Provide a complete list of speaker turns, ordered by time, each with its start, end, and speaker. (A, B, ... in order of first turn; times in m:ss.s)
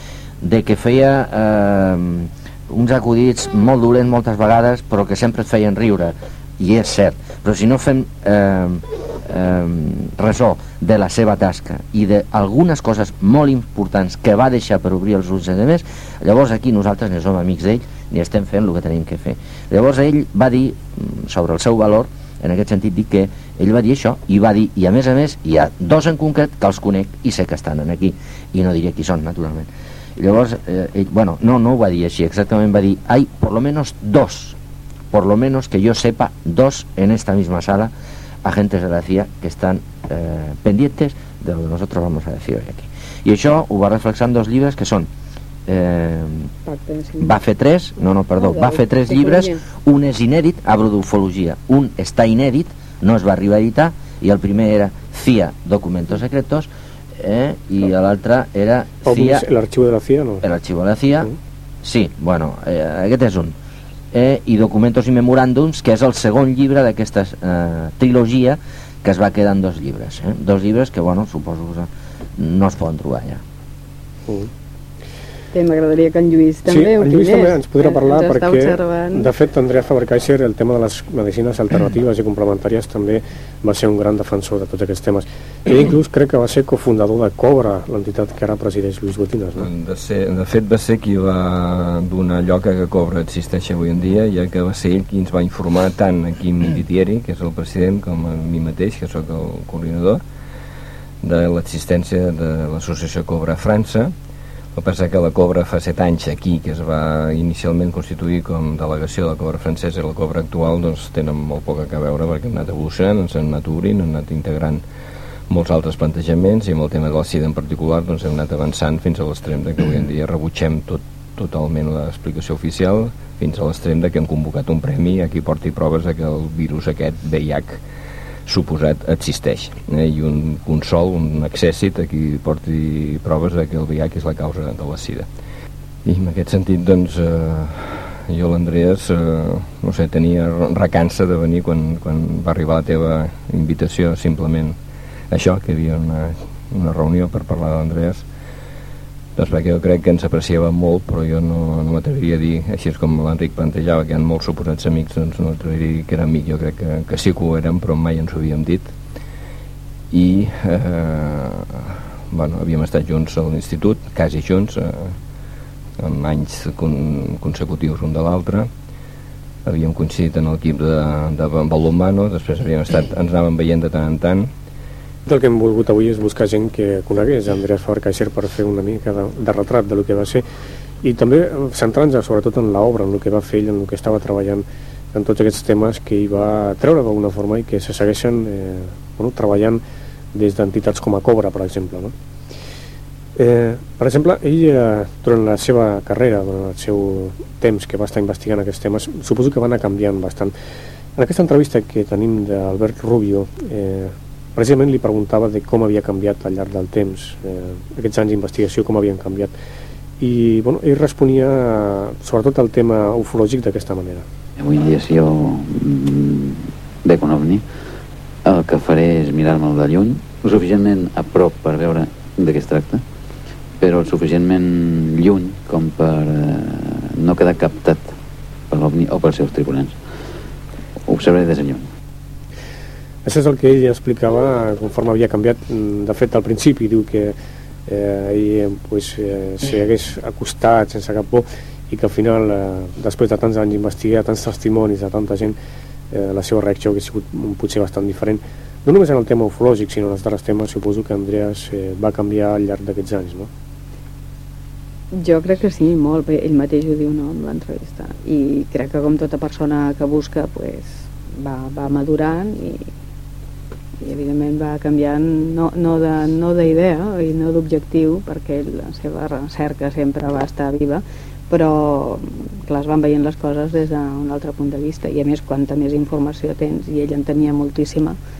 0:00.4-0:34.6 A
0:35.1-0:45.1 A
0:45.7-0:46.5 A
0:46.6-0:47.3 B
0:47.2-0:59.4 A
0:48.4-0:49.6 B
0:59.0-1:00.4 C
1:00.4-1:01.3 A
1:01.8-1:03.6 A
1:04.1-1:13.4 A
1:15.5-1:19.3 B
1:16.6-1:29.7 C
1:29.6-1:40.2 D
1:41.2-1:44.1 D
1:44.7-1:54.8 D
1:55.5-2:07.8 D
2:08.4-2:15.2 D
2:16.0-2:24.8 D
2:25.3-2:28.2 D
2:29.4-2:38.9 D
2:40.1-2:45.1 D
2:46.0-2:48.7 D
2:49.6-2:54.5 D
2:55.2-3:00.4 C
3:01.0-3:09.8 C
3:10.3-3:12.1 C
3:13.4-3:20.5 C
3:21.2-3:29.5 C
3:30.2-3:34.2 C
3:34.6-3:37.6 E
3:38.4-3:43.0 E
3:43.8-3:48.1 E
3:48.7-3:50.0 E
3:51.0-3:51.9 E
3:53.2-3:57.3 C
3:57.9-4:05.6 C
4:06.1-4:13.5 C
4:15.1-4:22.9 B
4:24.0-4:38.2 B